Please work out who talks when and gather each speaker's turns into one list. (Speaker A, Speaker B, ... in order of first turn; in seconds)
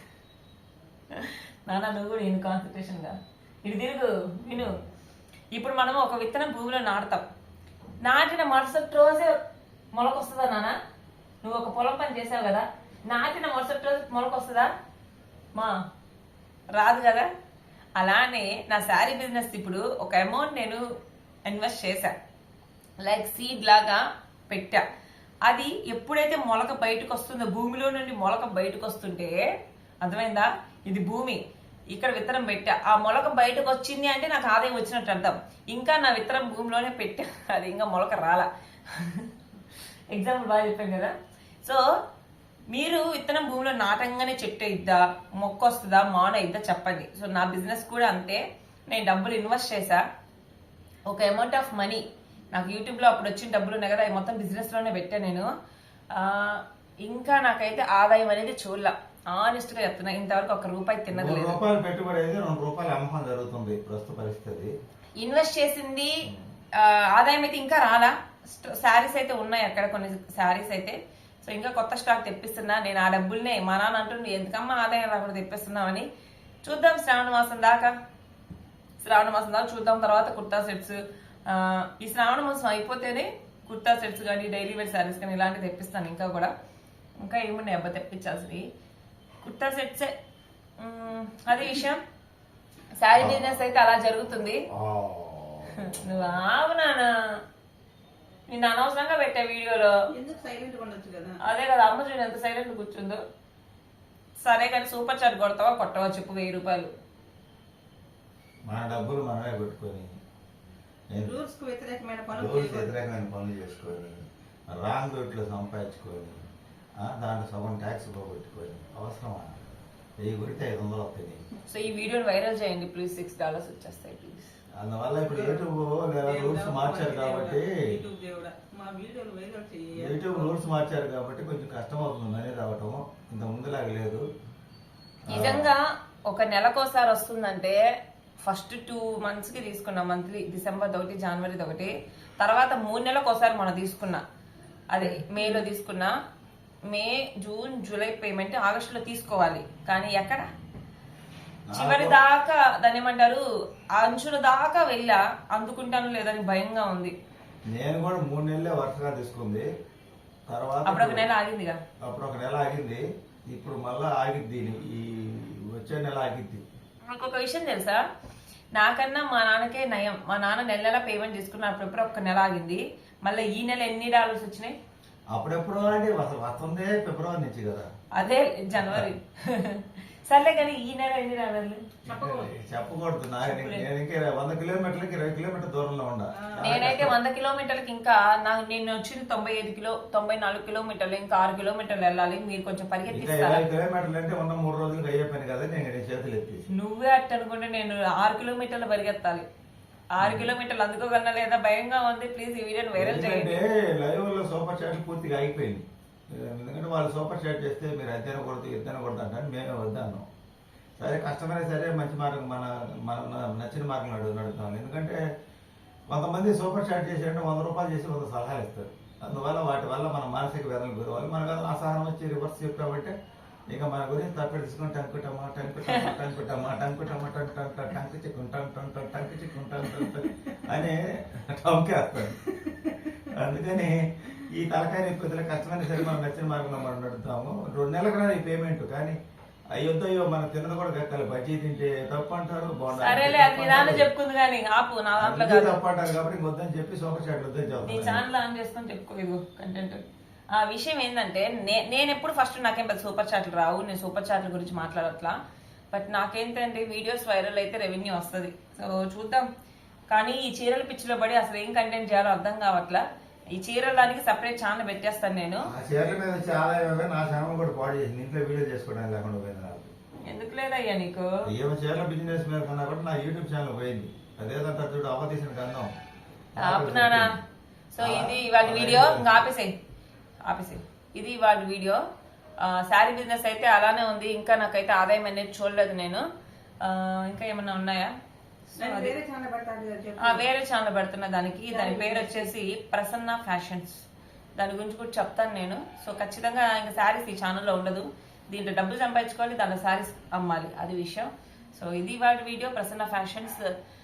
Speaker A: 1.1-4.8, 5.5-7.2, 8.0-9.4, 9.9-10.8, 11.4-14.7, 16.7-17.3, 18.0-20.8, 21.5-22.1, 23.0-24.8, 25.4-29.4, 30.0-39.3, 40.1-41.1, 42.7-50.0, 51.1-55.5, 56.1-61.6, 65.2-66.2, 66.8-76.1, 76.6-77.9, 79.0-86.5, 87.2-88.6, 89.4-90.1, 90.8-92.0, 93.0-94.6, 95.8-97.1, 98.5-100.0, 101.4-103.2, 104.4-106.9, 121.7-124.5, 135.3-137.8, 138.4-144.2, 144.9-146.1, 146.9-150.5, 151.7-153.4, 153.9-157.1, 160.9-161.8, 167.1-168.0, 168.7-174.8, 178.1-181.9, 183.4-183.8, 186.6-193.6, 196.7-199.4, 200.1-203.6, 225.8-226.1, 242.9-245.8, 247.8-255.3, 255.9-259.5, 260.1-265.7, 270.3-271.3, 276.6-277.3, 277.9-279.7, 280.4-282.0, 282.6-286.2, 286.8-288.1, 288.7-289.1, 290.2-294.0, 294.6-303.7
Speaker B: 61.1-64.7, 93.2-93.7, 94.7-96.2, 108.7-110.1, 112.3-114.2, 114.7-116.4, 117.0-119.6, 120.2-121.4, 124.8-127.7, 130.0-134.2, 135.3-135.7, 151.7-152.2, 157.7-159.7, 160.5-161.3, 162.0-166.6, 175.3-177.9, 178.8-179.1, 182.1-187.2, 193.1-196.6, 200.2-200.5, 202.9-210.2, 211.0-215.2, 216.1-223.1, 223.7-232.7, 233.3-239.2, 239.7-244.1, 245.2-248.2, 265.6-269.9, 271.5-275.9, 276.6-277.3, 278.0-279.5
Speaker C: 100.1-101.4, 111.2-112.9, 125.3-125.6, 126.2-130.5, 145.0-145.6, 182.1-182.5, 186.3-186.9, 288.8-290.4, 291.7-292.5